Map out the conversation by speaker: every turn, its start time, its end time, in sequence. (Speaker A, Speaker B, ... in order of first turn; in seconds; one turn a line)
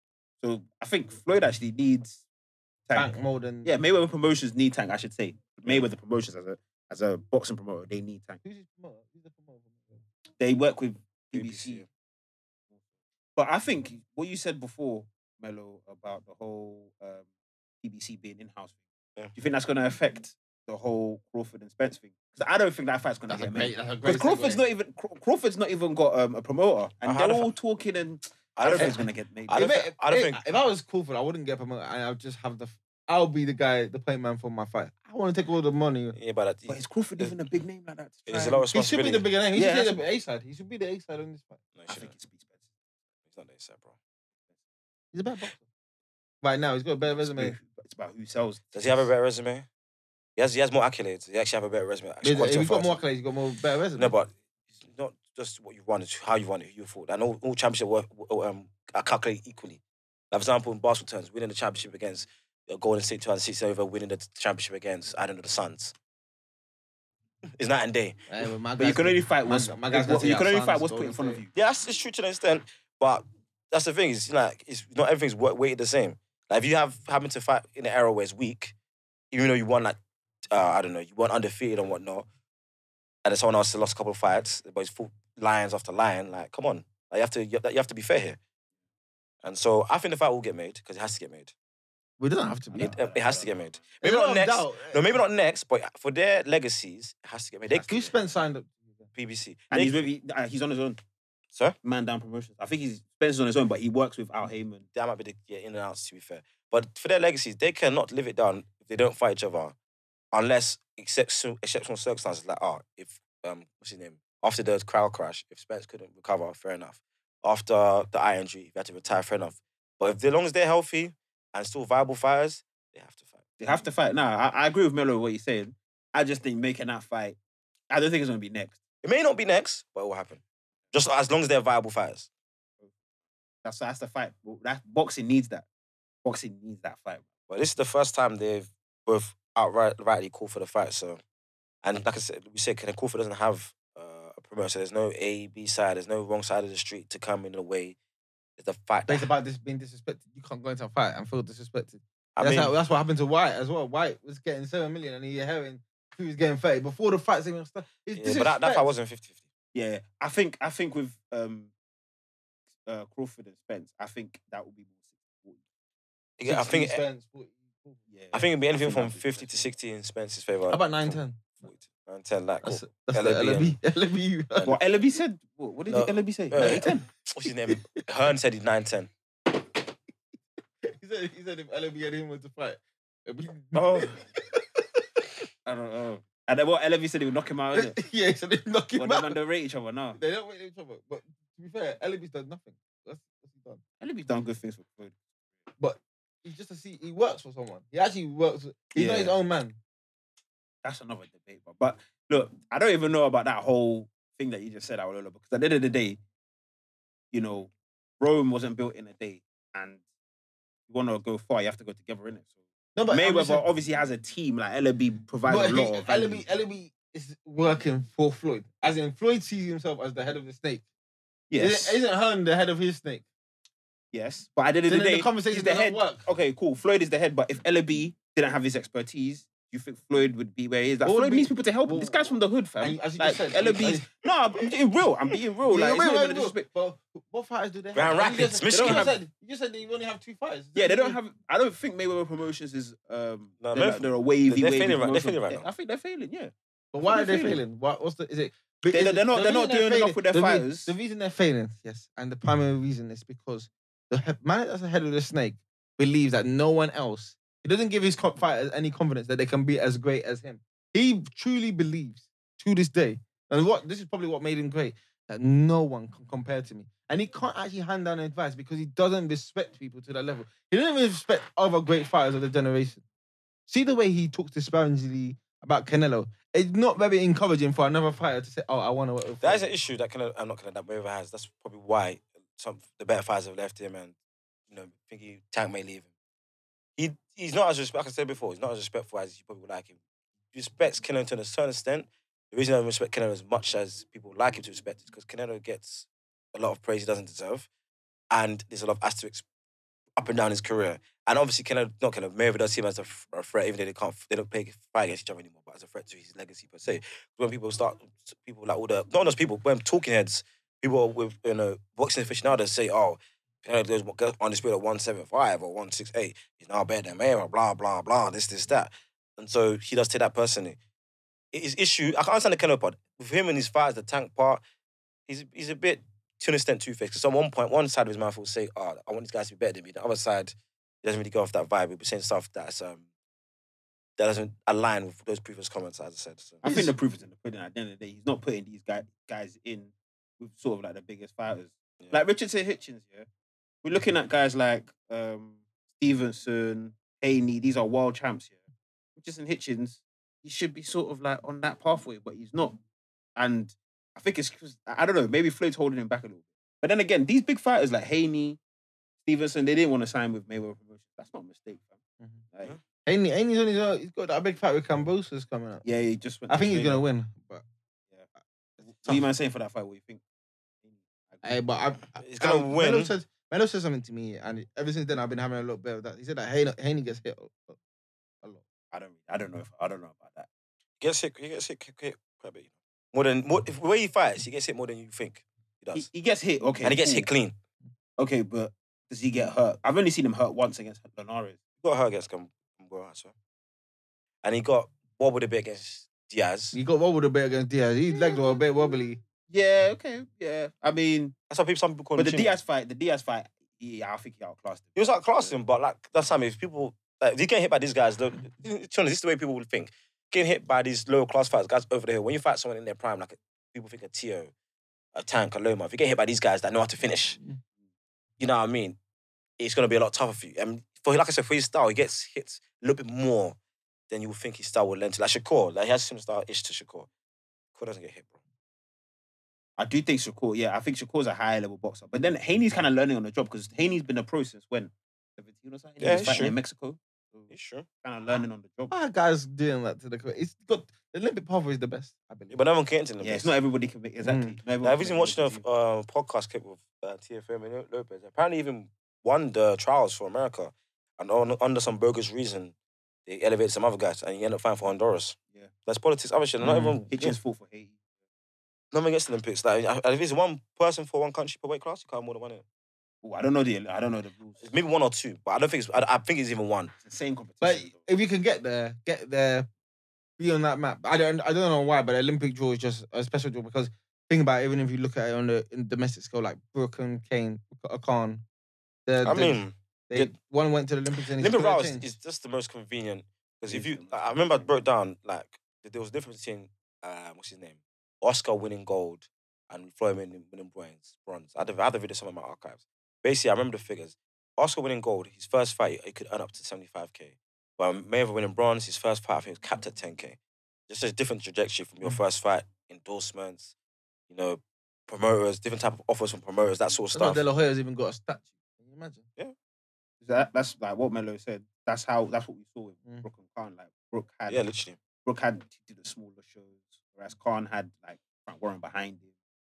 Speaker A: 0.4-2.2
Speaker A: 2.9-3.1
Speaker B: 2.9-3.7
Speaker A: 3.6-8.4
Speaker B: 8.4-10.0
Speaker A: 10.4-11.8
Speaker C: 11.3-11.9
Speaker A: 13.4-17.3
Speaker A: 17.8-18.8
Speaker A: 19.4-29.6
Speaker B: 23.3-24.6
Speaker C: 27.0-27.5
Speaker C: 28.6-30.6
Speaker B: 29.5-36.2
Speaker C: 36.1-37.3
Speaker A: 36.7-38.7
Speaker C: 38.3-39.3
Speaker B: 38.7-41.6
Speaker A: 39.5-40.0
Speaker C: 41.8-42.1
Speaker A: 41.9-42.6
Speaker C: 43.3-44.0
Speaker B: 45.1-45.6
Speaker B: 46.4-47.6
Speaker A: 47.2-49.0
Speaker C: 48.7-49.7
Speaker C: 50.4-53.0
Speaker B: 52.2-54.1
Speaker C: 54.0-66.0
Speaker C: 67.6-68.2
Speaker B: 68.3-71.4
Speaker A: 68.8-71.5
Speaker C: 71.5-78.7
Speaker C: 79.3-80.0
Speaker C: 80.5-82.3
Speaker C: 83.2-88.4
Speaker C: 89.4-91.5
Speaker B: 92.2-93.0
Speaker A: 92.7-93.8
Speaker C: 92.8-98.1
Speaker B: 94.0-95.2
Speaker B: 97.7-98.9
Speaker C: 99.2-100.0
Speaker A: 99.7-101.0
Speaker A: 101.8-104.9
Speaker C: 105.0-109.8
Speaker C: 110.3-123.5
Speaker A: 123.6-127.4
Speaker A: 127.9-128.8
Speaker C: 129.0-130.4
Speaker C: 130.9-132.3
Speaker A: 133.6-135.7
Speaker A: 136.2-137.3
Speaker C: 137.5-141.2
Speaker C: 141.8-148.0
Speaker C: 148.6-149.3
Speaker B: 149.1-158.9
Speaker C: 152.4-152.7
Speaker C: 158.2-159.4
Speaker A: 159.7-161.7
Speaker A: 162.8-165.6
Speaker C: 166.4-167.0
Speaker B: 166.4-168.0
Speaker A: 168.1-169.7
Speaker C: 168.3-173.8
Speaker B: 170.7-171.4
Speaker B: 172.6-174.8
Speaker A: 174.7-177.1
Speaker C: 175.9-179.1
Speaker B: 176.6-177.8
Speaker B: 180.8-185.0
Speaker A: 183.7-184.2
Speaker A: 185.7-188.0
Speaker B: 187.7-189.4
Speaker A: 189.0-190.2
Speaker B: 190.2-193.8
Speaker A: 194.0-195.2
Speaker B: 195.8-199.8
Speaker A: 198.9-199.3
Speaker A: 200.8-206.2
Speaker A: 207.3-210.0
Speaker A: 210.9-212.5
Speaker B: 213.0-213.6
Speaker A: 213.1-216.4
Speaker B: 215.5-220.8
Speaker A: 221.5-222.0
Speaker B: 221.6-223.2
Speaker A: 224.1-236.7
Speaker B: 224.9-226.2
Speaker B: 231.0-234.1
Speaker B: 235.7-241.2
Speaker C: 237.9-239.1
Speaker A: 238.7-239.1
Speaker A: 240.8-246.5
Speaker C: 243.6-245.7
Speaker B: 246.9-273.0
Speaker A: 247.0-247.6
Speaker A: 248.9-250.9
Speaker B: 273.7-279.7
Speaker C: 279.4-284.1
Speaker C: 284.7-286.1
Speaker C: 287.0-290.0
Speaker C: 290.5-297.7
Speaker C: 298.3-299.4
Speaker C: 300.2-320.8
Speaker C: 321.5-324.6
Speaker C: 325.3-333.1
Speaker C: 334.2-336.6
Speaker A: 336.6-343.3
Speaker B: 336.6-336.9
Speaker A: 343.8-348.6
Speaker A: 349.2-352.8
Speaker A: 353.4-358.6
Speaker A: 359.2-362.0
Speaker B: 363.1-365.9
Speaker A: 365.8-367.0
Speaker B: 366.5-367.6
Speaker A: 368.8-370.2
Speaker A: 370.8-371.6
Speaker B: 371.4-377.8
Speaker C: 372.2-373.1
Speaker A: 378.9-380.5
Speaker C: 381.0-386.1
Speaker A: 385.9-387.3
Speaker C: 386.8-387.6
Speaker A: 388.2-391.6
Speaker C: 391.8-393.3
Speaker C: 394.4-396.8
Speaker B: 396.7-399.2
Speaker A: 399.5-401.4
Speaker C: 401.5-402.5
Speaker A: 402.2-405.5
Speaker C: 405.0-414.5
Speaker C: 415.1-417.4
Speaker C: 418.4-419.0
Speaker C: 419.6-423.6
Speaker C: 424.1-427.1
Speaker C: 427.8-428.4
Speaker A: 429.8-437.5
Speaker C: 436.0-436.6
Speaker C: 437.5-437.9
Speaker A: 438.0-438.9
Speaker B: 438.9-442.6
Speaker C: 442.5-443.5
Speaker A: 443.2-445.6
Speaker B: 444.2-444.6
Speaker C: 444.8-452.7
Speaker C: 453.3-457.4
Speaker B: 456.6-457.1
Speaker A: 457.1-458.0
Speaker C: 458.9-462.6
Speaker A: 463.2-464.7
Speaker C: 464.6-466.9
Speaker A: 467.0-468.0
Speaker B: 467.6-469.7
Speaker B: 470.4-478.4
Speaker B: 479.1-482.1
Speaker C: 479.2-480.3
Speaker C: 481.4-500.4
Speaker A: 483.7-484.7
Speaker C: 500.9-503.7
Speaker C: 504.3-507.4
Speaker B: 507.1-509.3
Speaker A: 510.2-514.6
Speaker C: 514.5-515.0
Speaker A: 515.2-519.3